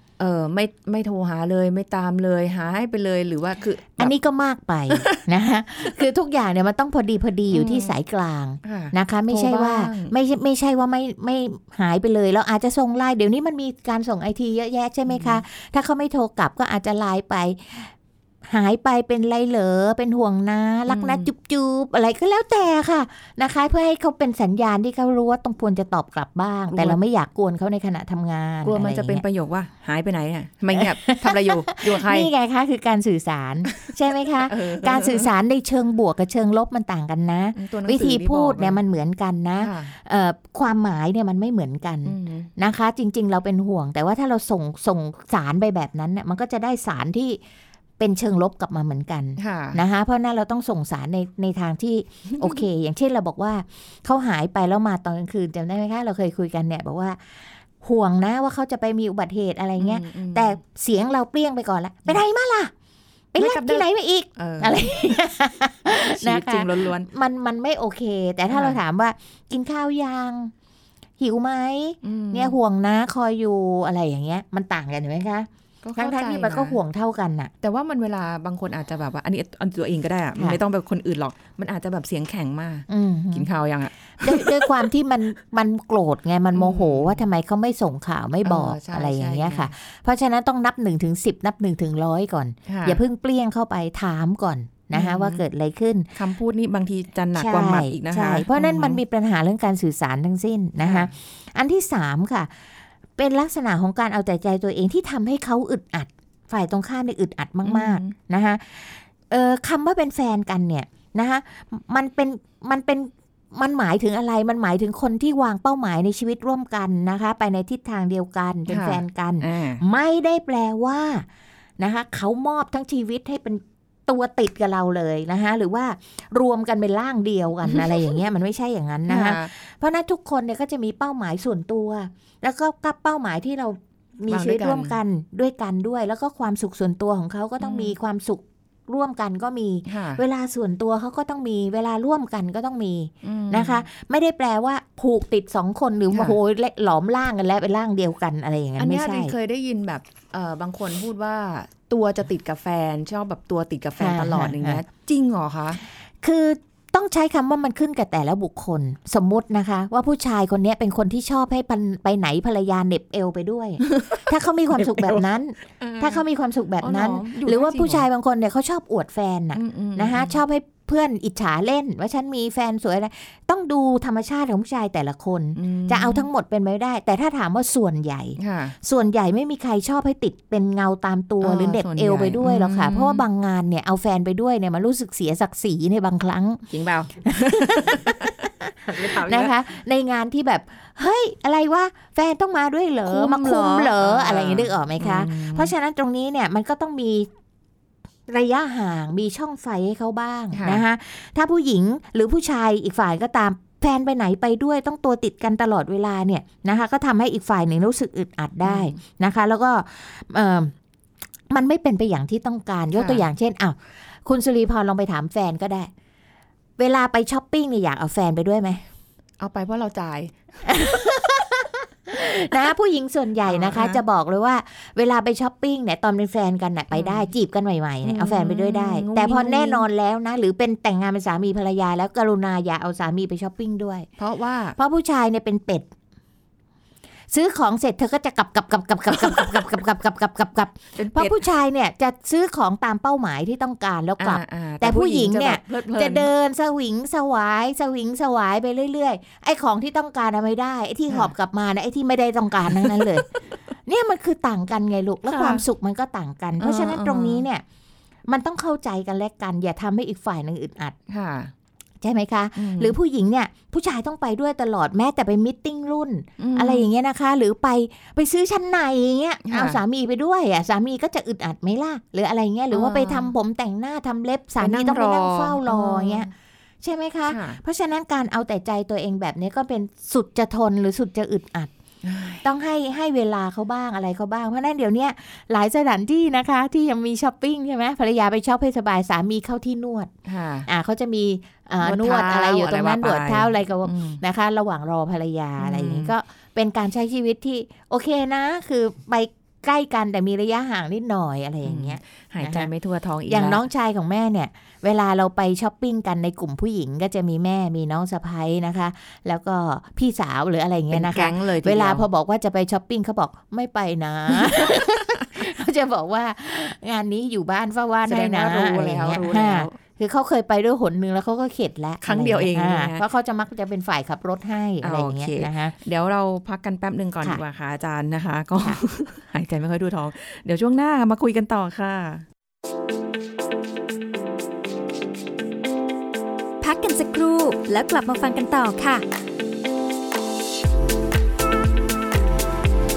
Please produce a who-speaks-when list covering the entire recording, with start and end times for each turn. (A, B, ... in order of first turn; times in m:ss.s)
0:00.2-0:04.1 A
0:04.0-0:17.9 B
0:04.9-0:05.2 A
0:07.5-0:07.9 A
0:08.6-0:10.1 A
0:15.1-0:15.4 A
0:18.5-0:29.2 B
0:20.9-0:21.3 A
0:26.7-0:27.0 A
0:28.6-0:32.3 A
0:30.7-0:47.4 B
0:34.5-0:35.3 A
0:37.6-0:38.8 A
0:39.6-0:39.9 A
0:42.1-0:42.5 A
0:48.0-1:02.7 B
0:49.4-0:49.8 A
0:52.4-0:52.6 A
0:59.8-1:00.6 A
1:03.3-1:10.5 B
1:03.4-1:04.9 A
1:05.9-1:07.1 A
1:08.5-1:08.8 A
1:11.2-1:17.5 B
1:12.0-1:12.6 A
1:15.8-1:16.8 A
1:17.6-1:24.7 A
1:22.9-1:23.5 B
1:24.2-1:36.1 B
1:26.5-1:27.2 A
1:28.4-1:29.7 A
1:32.7-1:33.0 A
1:34.9-1:35.4 A
1:36.2-1:39.0 A
1:37.4-1:42.5 B
1:40.8-1:41.1 A
1:43.2-2:01.3 B
1:47.6-1:48.1 A
1:58.7-1:59.8 A
2:01.8-2:29.3 B
2:09.1-2:09.5 A
2:14.3-2:15.0 A
2:17.6-2:18.0 A
2:19.9-2:20.2 A
2:23.2-2:23.8 A
2:26.1-2:26.4 A
2:28.8-2:35.8 A
2:34.0-2:34.8 B
2:36.2-3:06.6 B
2:43.9-2:44.2 A
2:45.8-2:46.2 A
2:46.8-2:48.1 A
2:49.6-2:50.4 A
2:55.6-2:56.3 A
2:58.4-2:58.8 A
3:01.4-3:03.2 A
3:06.7-3:09.5 A
3:07.2-3:17.3 B
3:13.1-3:15.7 A
3:18.3-3:30.7 B
3:20.5-3:20.8 A
3:28.6-3:29.0 A
3:31.5-3:35.9 B
3:32.9-3:33.2 A
3:36.8-3:38.8 B
3:39.4-3:40.4 A
3:40.6-3:54.1 B
3:43.5-3:44.0 A
3:46.9-3:47.3 A
3:48.0-3:49.9 A
3:54.2-3:54.8 A
3:54.8-3:55.9 B
3:57.3-4:13.3 B
4:01.0-4:01.4 A
4:04.2-4:06.3 A
4:13.9-4:17.6 B
4:15.3-4:15.6 A
4:16.6-4:17.4 A
4:18.3-4:21.0 B
4:21.1-4:21.5 A
4:22.0-4:36.3 B
4:22.6-4:23.0 A
4:26.4-4:26.9 A
4:29.5-4:29.8 A
4:32.7-4:33.3 A
4:34.6-4:36.3 A
4:36.8-4:41.7 B
4:37.3-4:37.6 A
4:42.0-4:42.4 A
4:42.4-4:50.1 B
4:50.3-4:50.7 A
4:50.7-5:02.7 B
4:51.8-4:54.2 A
4:55.6-4:56.1 A
5:01.6-5:03.6 A
5:03.3-5:25.8 B
5:10.9-5:12.1 A
5:14.3-5:14.8 A
5:18.1-5:19.8 A
5:22.0-5:23.0 A
5:24.8-5:32.2 A
5:36.6-5:39.0 C